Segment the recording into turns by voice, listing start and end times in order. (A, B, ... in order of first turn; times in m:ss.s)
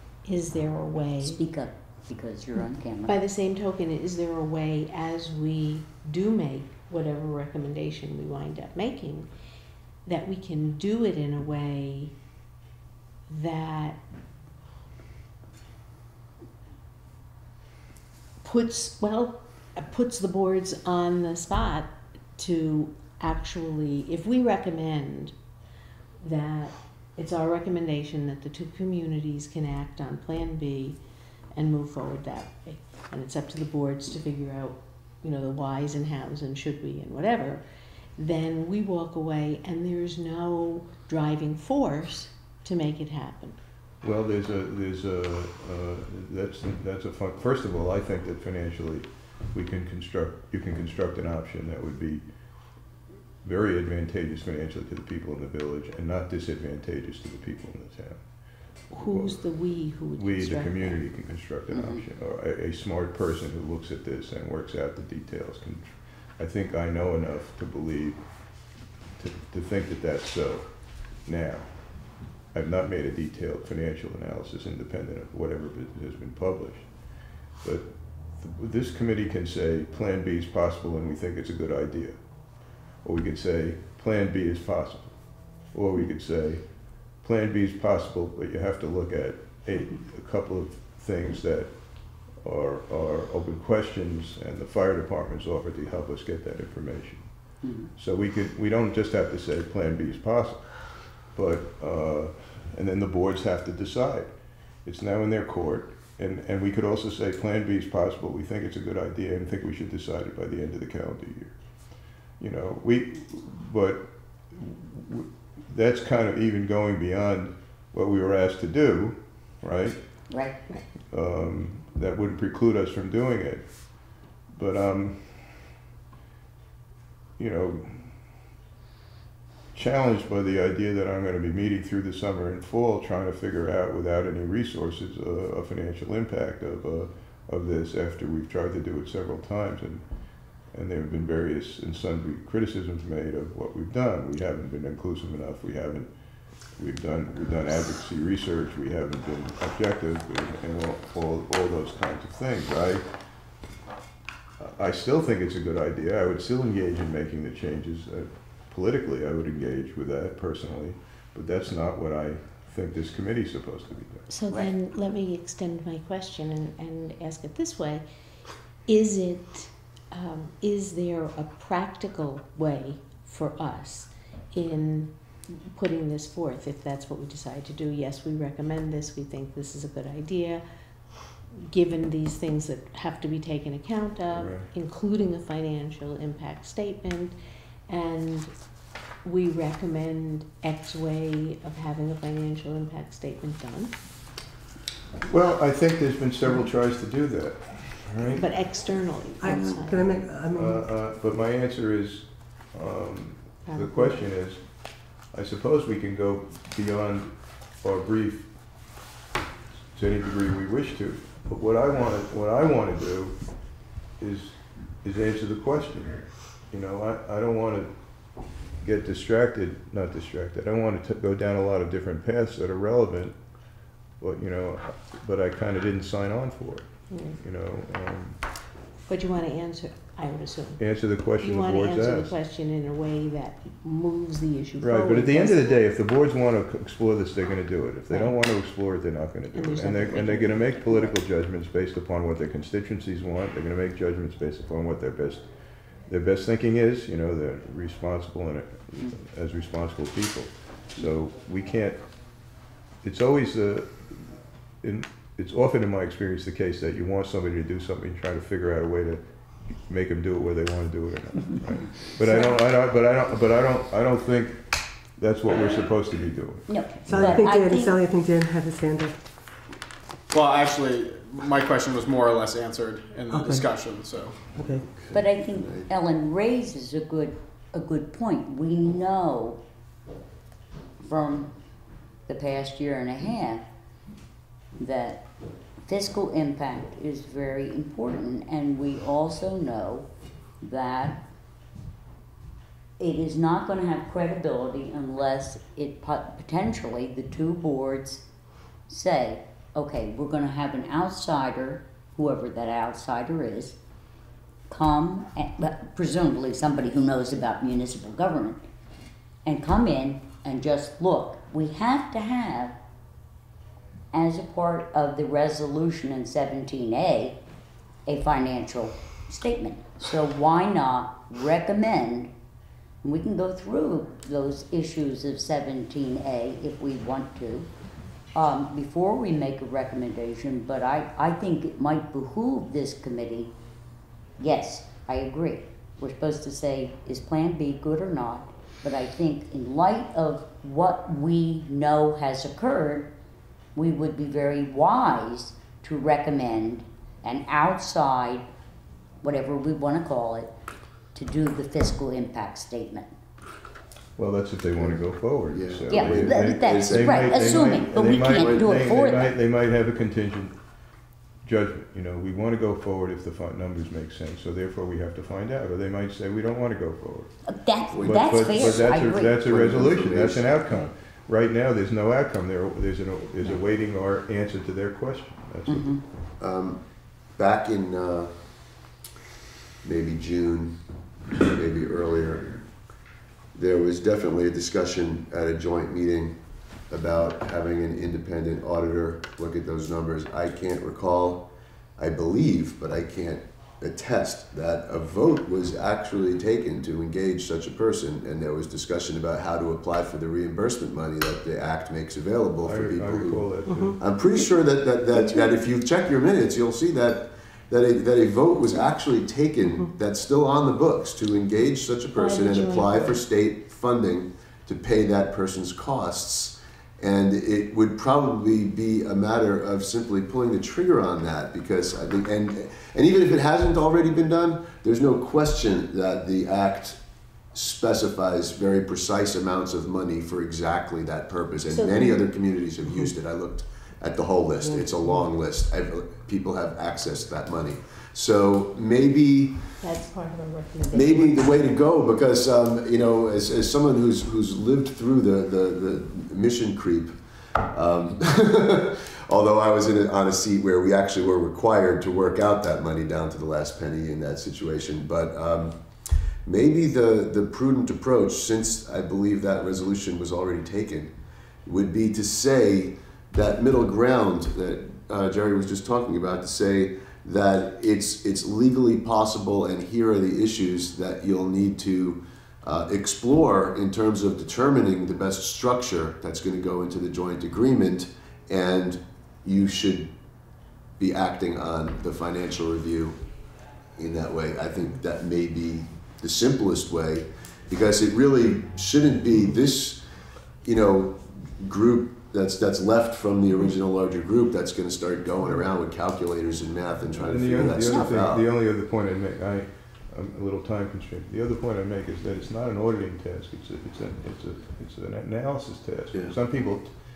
0:00.2-0:01.4 A
0:01.2-0:03.2 B
0:03.1-0:09.3 A
0:10.1-0:12.2 A
0:13.3-0:14.0 A
0:18.4-0:25.4 A
0:26.2-0:31.0 A
0:31.5-0:37.6 A
0:38.2-0:43.6 A
0:44.0-0:52.3 C
0:53.4-2:00.3 C
0:58.9-1:01.1 A
1:01.7-1:02.0 B
1:37.6-1:37.9 B
2:00.3-2:00.6 B
2:01.1-2:05.7 C
2:07.4-2:08.2 C
2:09.7-2:20.0 C
2:20.7-2:26.1 C
2:26.8-2:33.0 C
2:34.6-2:44.2 C
2:44.3-2:48.0 A
2:48.9-3:00.6 A
3:01.7-3:07.4 A
3:04.3-3:04.7 C
3:07.9-3:14.0 A
3:15.3-3:18.5 C
3:18.3-3:20.4 A
3:19.4-3:20.8 D
3:20.5-3:28.5 C
3:23.6-3:24.3 A
3:29.9-3:33.4 C
3:34.2-3:37.9 C
3:38.8-3:43.4 C
3:44.2-3:48.4 C
3:47.1-3:47.4 A
3:49.1-3:55.8 A
3:50.8-3:52.4 C
3:54.8-4:05.5 C
3:58.1-3:58.4 A
3:59.5-4:01.2 A
4:06.1-4:12.5 C
4:13.0-4:14.3 C
4:14.8-4:19.2 C
4:19.8-4:27.4 C
4:26.7-4:28.0 B
4:27.1-4:29.2 D
4:30.3-4:34.5 E
4:33.3-4:33.6 D
4:34.6-4:34.8 D
4:34.6-4:35.9 F
4:35.1-4:39.6 B
4:41.0-4:41.5 B
4:42.3-4:43.7 B
4:44.8-4:45.3 B
4:45.8-4:50.1 B
4:50.6-4:51.2 B
4:53.0-4:58.2 B
4:58.9-5:03.8 B
5:04.7-5:08.6 B
5:09.4-5:12.8 B
5:14.1-5:17.4 B
5:18.1-5:22.3 B
5:23.0-5:27.7 B
5:28.4-5:33.5 B
5:34.4-5:43.1 B
5:43.8-5:48.5 B
5:49.2-5:50.5 B
5:51.1-5:53.1 B
5:54.2-6:00.6 C
5:54.8-5:58.7 F
5:55.9-5:59.3 B
6:01.4-6:07.3 C
6:07.5-6:09.3 B
6:07.9-6:10.8 F
6:08.0-6:16.0 C
6:15.7-6:16.0 B
6:16.4-6:16.8 F
6:17.4-6:18.3 F
6:19.8-6:20.8 F
6:21.4-6:22.6 F
6:23.6-6:26.4 F
6:26.9-6:31.5 F
6:32.0-7:07.0 F
6:42.6-6:44.0 C
6:43.7-6:44.0 D
6:45.2-6:45.5 A
6:52.1-6:53.2 A
7:07.5-7:19.7 F
7:11.7-7:12.3 A
7:19.8-7:21.8 A
7:20.9-7:27.1 F
7:27.7-7:35.8 F
7:36.4-7:41.1 F
7:41.6-8:00.1 F
8:01.0-8:03.2 F
8:04.0-8:10.0 F
8:10.6-8:18.5 F
8:17.2-8:26.9 C